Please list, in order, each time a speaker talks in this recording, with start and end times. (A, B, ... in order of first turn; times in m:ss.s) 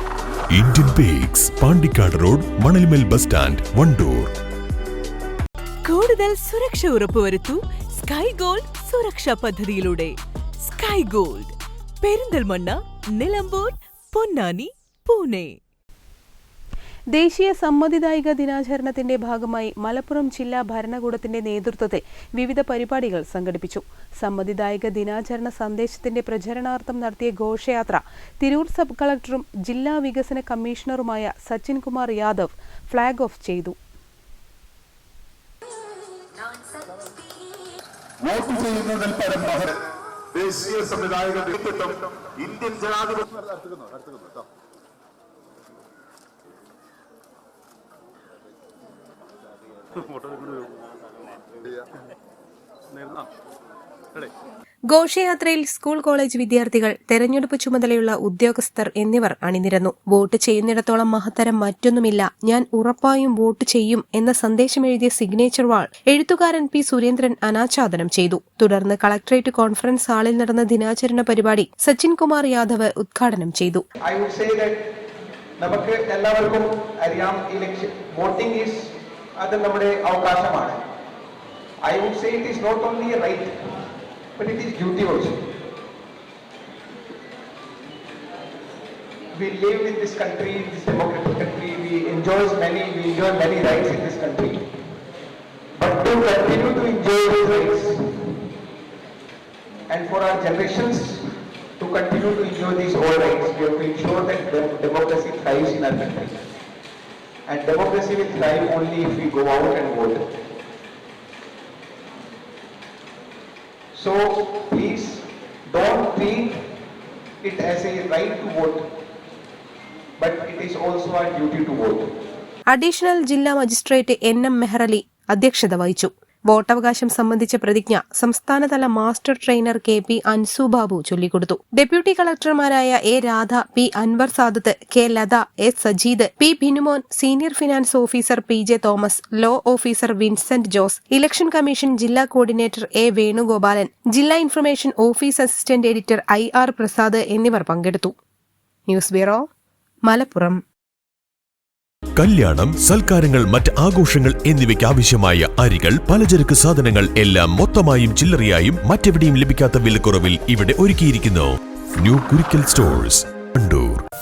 0:00.5-0:04.3 A
0:05.8-0:15.6 B
0:17.1-0:33.8 C
0:38.2-0:39.7 D
0:40.4-0:43.2 D
0:54.9-1:13.8 C
1:14.0-1:14.8 E
1:15.6-1:20.8 E
1:21.8-1:23.5 E
1:24.4-1:25.5 E
1:29.3-1:34.6 E
1:35.8-1:38.0 E
1:39.9-1:41.3 E
1:41.8-1:46.4 E
1:47.5-1:50.2 E
1:53.9-1:56.6 E
1:57.4-1:58.8 E
2:00.2-2:02.1 E
2:02.7-2:28.1 C
2:28.9-2:29.4 C
2:30.1-2:30.6 C
2:32.2-2:44.0 A